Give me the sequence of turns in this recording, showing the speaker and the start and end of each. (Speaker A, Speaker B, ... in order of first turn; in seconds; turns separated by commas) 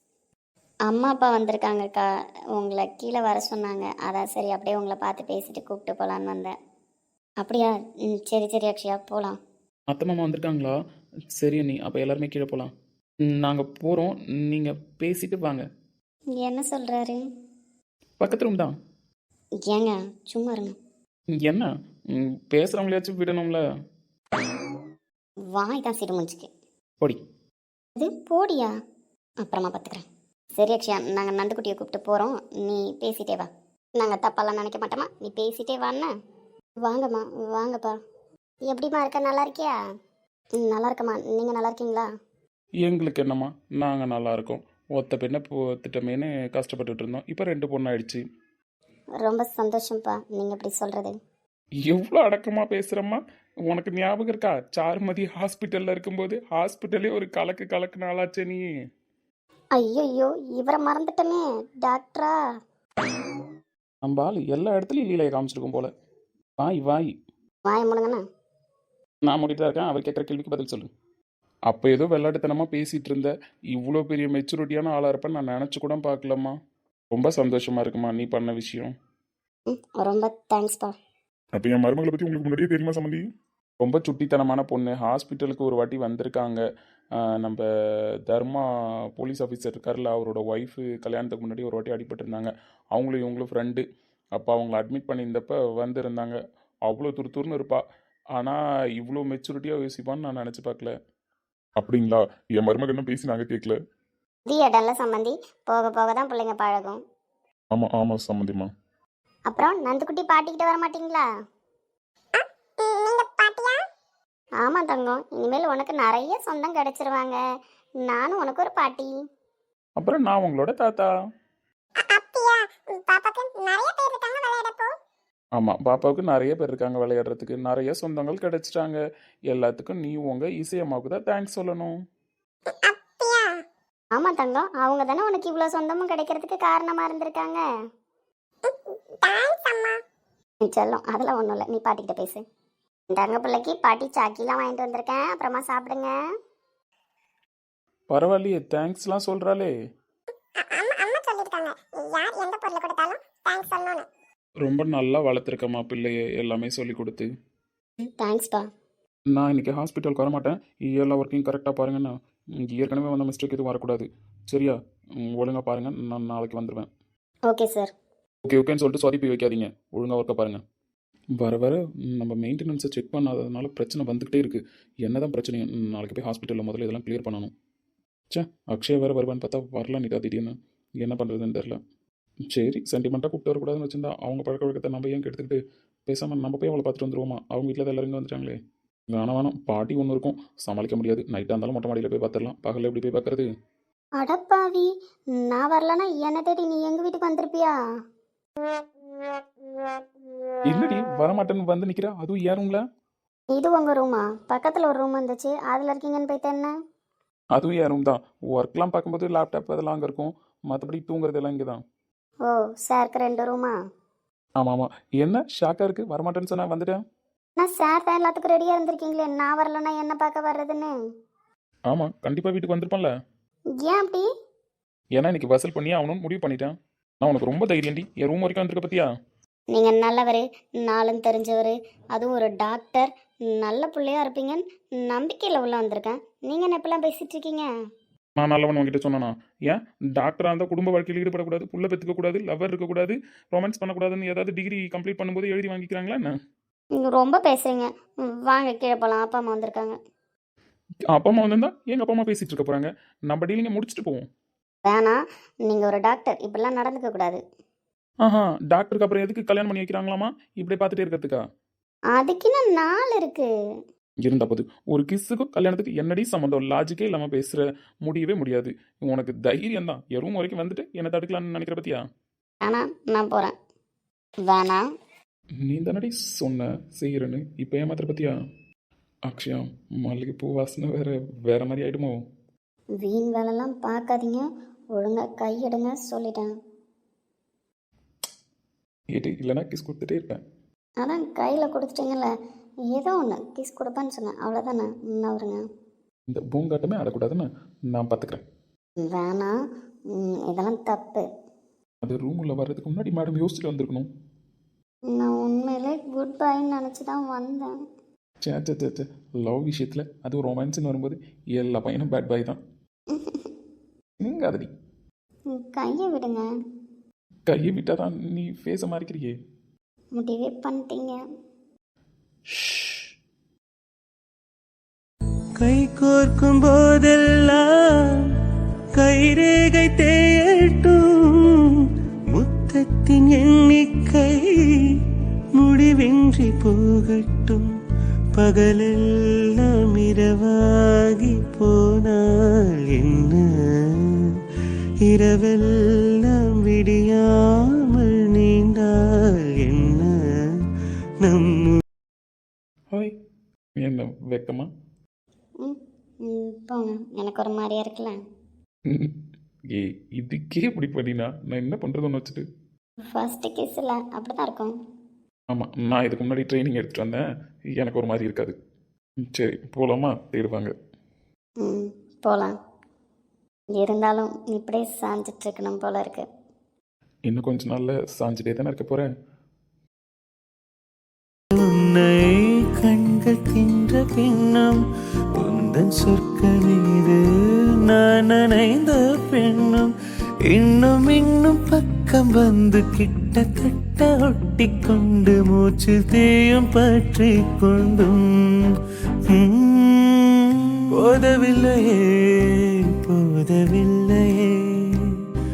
Speaker A: 0.9-6.5, Speaker A: 7.4-9.4, Speaker B: 9.9-10.8, Speaker B: 11.4-12.7, Speaker B: 13.2-15.7, Speaker A: 16.4-17.2, Speaker B: 18.2-18.8, Speaker A: 19.6-20.8, Speaker B: 21.3-23.6, Speaker A: 25.5-26.5, Speaker A: 28.0-28.7, Speaker A: 29.4-30.1, Speaker A: 30.6-36.1, Speaker A: 36.8-37.9, Speaker A: 38.7-39.7, Speaker A: 40.6-42.1, Speaker B: 42.8-48.2, Speaker A: 49.2-51.2, Speaker B: 51.8-58.6, Speaker A: 59.8-62.4, Speaker B: 64.0-65.9, Speaker B: 66.6-67.1, Speaker A: 67.7-68.2, Speaker B: 69.3-70.9, Speaker B: 71.7-76.6, Speaker B: 77.1-78.9, Speaker A: 79.7-81.0, Speaker C: 81.5-83.2, Speaker B: 83.8-86.6, Speaker B: 87.3-87.6, Speaker B: 88.3-88.7, Speaker B: 89.2-93.8, Speaker B: 94.3-97.8, Speaker B: 98.4-100.9, Speaker C: 101.8-103.8, Speaker A: 104.5-107.0, Speaker C: 107.7-108.7, Speaker A: 109.5-111.3, Speaker D: 112.3-113.8, Speaker A: 114.6-117.4, Speaker A: 118.0-119.2, Speaker B: 120.0-121.1, Speaker D: 122.0-124.9, Speaker B: 125.6-129.0, Speaker B: 129.5-132.0, Speaker D: 132.7-133.6, Speaker A: 134.2-137.6, Speaker D: 138.6-140.0, Speaker A: 140.7-142.4, Speaker A: 143.1-146.1, Speaker B: 148.1-149.7, Speaker D: 150.6-154.1, Speaker B: 154.6-157.3, Speaker A: 158.1-158.7, Speaker B: 159.3-166.9, Speaker A: 167.5-167.9, Speaker B: 168.4-170.6, Speaker B: 171.3-177.5, Speaker B: 178.3-181.8, Speaker B: 182.5-188.6, Speaker B: 189.1-193.5, Speaker A: 194.2-197.8, Speaker B: 200.7-202.8, Speaker A: 203.5-206.7, Speaker B: 207.5-211.8, Speaker A: 212.5-213.7, Speaker B: 214.6-217.0, Speaker A: 217.6-220.9, Speaker B: 221.9-223.1, Speaker A: 223.8-224.3, Speaker B: 225.2-229.1, Speaker A: 229.7-237.7, Speaker B: 238.4-246.3, Speaker A: 247.0-250.0, Speaker B: 251.1-254.2, Speaker A: 254.9-257.4, Speaker B: 258.2-261.4, Speaker A: 262.1-263.5, Speaker B: 264.2-272.0, Speaker A: 272.6-273.6, Speaker A: 274.5-274.8, Speaker B: 275.6-278.3, Speaker B: 279.3-282.2, Speaker A: 283.0-286.5, Speaker B: 289.1-290.4, Speaker A: 291.0-292.3, Speaker A: 292.9-295.6, Speaker B: 296.3-298.4, Speaker A: 299.0-299.5, Speaker A: 300.1-301.3, Speaker B: 302.0-304.1, Speaker A: 305.1-307.7, Speaker B: 308.4-312.6, Speaker A: 313.1-313.5, Speaker B: 314.2-314.7, Speaker A: 315.5-316.4, Speaker B: 317.5-319.3, Speaker A: 320.2-321.2, Speaker B: 322.5-323.1, Speaker E: 325.6-327.7, Speaker E: 329.0-331.6, Speaker E: 332.3-334.5, Speaker E: 335.6-337.7, Speaker E: 338.4-344.2, Speaker E: 345.1-350.4, Speaker E: 351.2-351.8, Speaker B: 353.8-354.7, Speaker A: 355.6-358.2, Speaker B: 358.9-359.2, Speaker B: 359.7-362.4, Speaker A: 363.1-364.8, Speaker B: 365.5-367.2, Speaker B: 367.8-368.6, Speaker B: 369.2-370.7, Speaker A: 371.6-372.5, Speaker A: 373.8-376.3, Speaker B: 377.3-379.1, Speaker E: 381.6-384.8, Speaker E: 385.4-387.2, Speaker E: 387.9-389.9, Speaker E: 390.5-398.3, Speaker E: 399.3-400.2, Speaker E: 400.9-402.2, Speaker E: 403.0-404.9